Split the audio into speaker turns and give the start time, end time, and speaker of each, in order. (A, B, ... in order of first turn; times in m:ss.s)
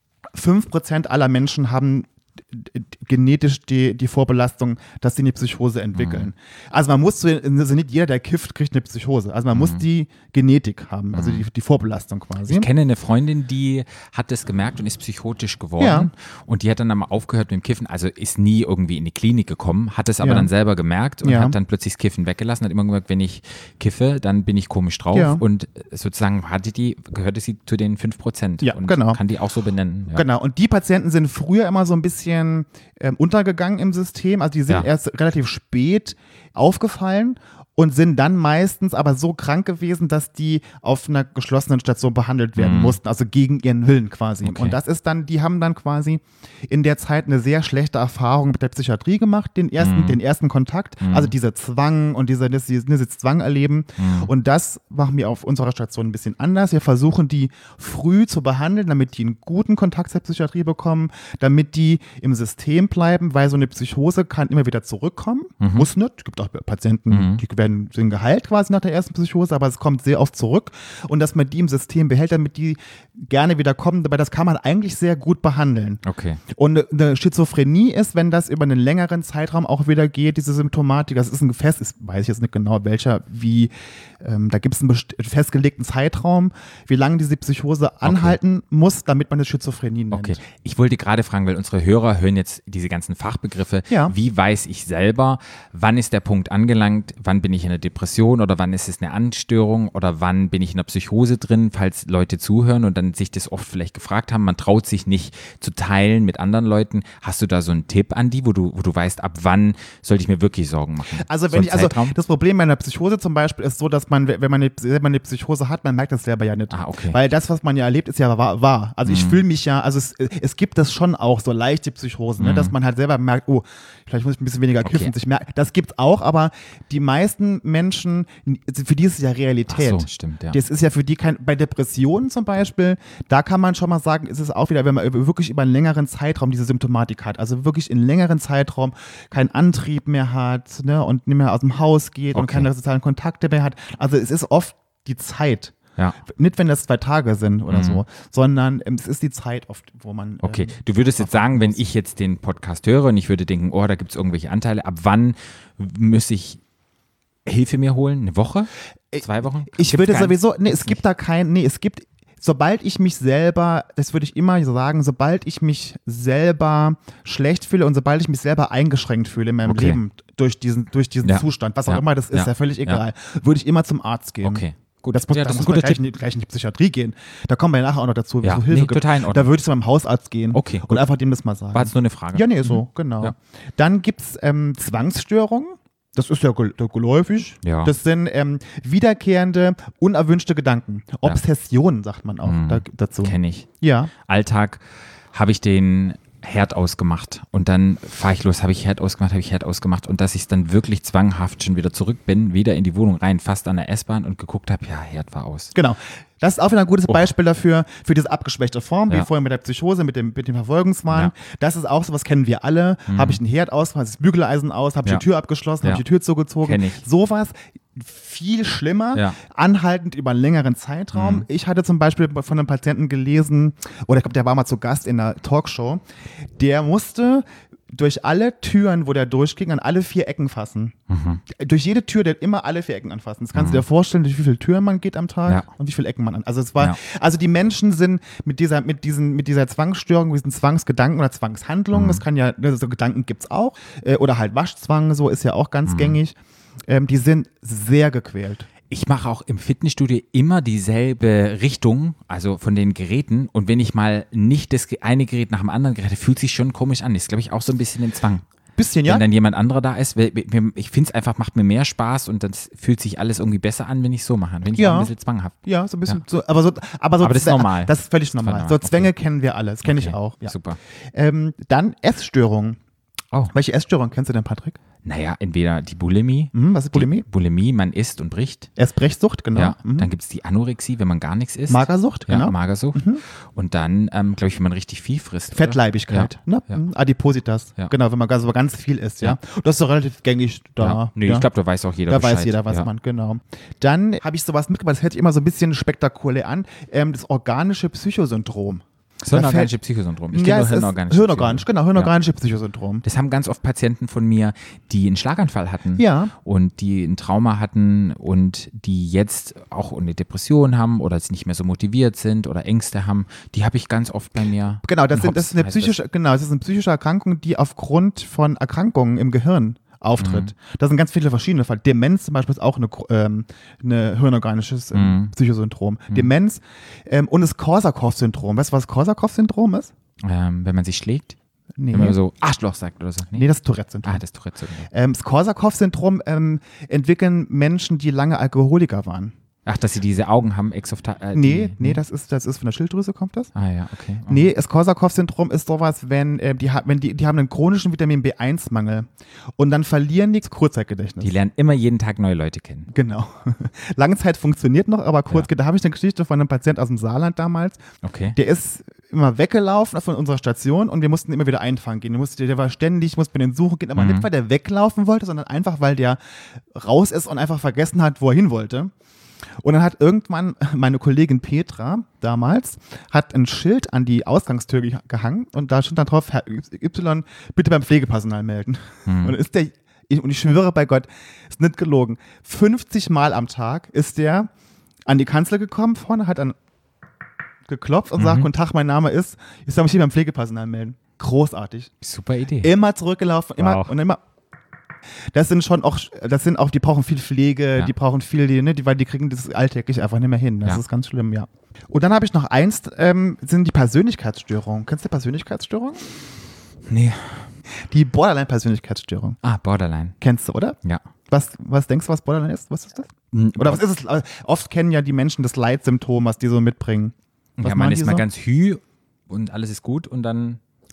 0:00.3-0:12.7 A
0:06.0-0:06.3 B
0:09.5-0:09.8 B
0:11.1-0:11.5 B
0:12.5-0:30.2 B
0:15.8-0:16.1 A
0:20.2-0:20.5 A
0:21.2-0:21.6 A
0:25.1-0:25.4 A
0:28.6-0:29.2 A
0:30.1-1:30.4 A
0:42.6-0:43.0 B
0:44.4-0:44.8 B
0:49.8-0:50.2 B
0:51.0-0:51.3 B
0:54.0-0:54.3 B
1:05.6-1:05.9 B
1:07.1-1:07.4 B
1:16.0-1:16.4 B
1:28.0-1:28.4 B
1:30.1-1:52.2 B
1:33.9-1:34.1 A
1:51.2-2:25.7 A
1:56.7-1:57.2 B
1:59.1-1:59.4 B
2:02.4-2:02.8 B
2:04.8-2:05.1 B
2:09.7-2:10.6 B
2:22.3-2:22.7 B
2:26.3-2:31.8 A
2:27.7-2:28.0 B
2:30.4-2:36.6 B
2:37.5-2:41.0 B
2:39.1-3:14.1 A
2:49.6-2:50.0 B
2:51.2-2:53.0 B
2:54.4-2:56.0 B
2:58.4-2:59.5 B
3:00.5-3:01.1 B
3:01.7-3:03.3 B
3:07.6-3:07.9 B
3:12.4-3:25.7 B
3:25.7-3:46.0 A
3:33.1-3:33.4 B
3:36.6-3:37.0 B
3:41.1-3:41.5 B
3:46.6-3:51.0 A
3:51.1-3:51.4 B
3:51.5-4:06.4 A
3:53.6-3:53.8 B
4:01.9-4:02.2 B
4:05.9-4:06.2 B
4:06.9-4:08.7 A
4:08.9-4:18.4 B
4:18.8-4:19.2 A
4:19.0-4:25.6 B
4:24.8-4:25.1 A
4:25.6-4:30.5 A
4:27.2-4:29.1 B
4:29.8-4:30.8 B
4:31.1-4:32.8 A
4:33.5-4:34.8 A
4:35.0-4:38.7 B
4:36.5-4:37.3 A
4:38.8-4:40.1 A
4:39.6-4:46.8 B
4:41.7-4:43.2 A
4:45.5-4:51.5 A
4:50.8-4:52.9 B
4:52.1-4:59.7 A
4:59.2-5:02.1 B
5:00.3-5:03.0 A
5:03.0-5:16.0 B
5:06.0-5:06.3 A
5:14.8-5:29.9 A
5:20.2-5:20.5 B
5:24.9-5:25.3 B
5:30.2-5:31.4 B
5:31.8-5:32.2 A
5:31.9-5:33.5 B
5:33.3-5:34.2 A
5:34.0-5:34.9 B
5:34.9-5:39.3 A
5:39.7-5:42.0 B
5:41.3-5:43.5 A
5:43.6-5:44.5 B
5:44.3-5:49.1 A
5:49.6-5:51.4 A
5:51.2-5:52.9 B
5:52.9-5:57.8 A
5:58.0-5:58.4 B
5:58.4-6:06.2 A
6:04.0-6:04.3 B
6:06.7-6:08.9 A
6:09.6-6:24.5 A
6:19.1-6:19.4 B
6:25.1-6:26.6 A
6:27.7-6:31.9 A
6:28.2-6:28.5 B
6:32.0-6:32.7 B
6:32.6-6:34.2 A
6:33.6-6:33.9 B
6:35.3-6:46.0 A
6:46.9-6:47.5 B
6:47.7-6:49.4 A
6:49.4-6:50.2 B
6:50.2-6:50.8 A
6:51.3-6:58.2 A
6:53.3-6:53.8 B
6:57.6-7:00.6 B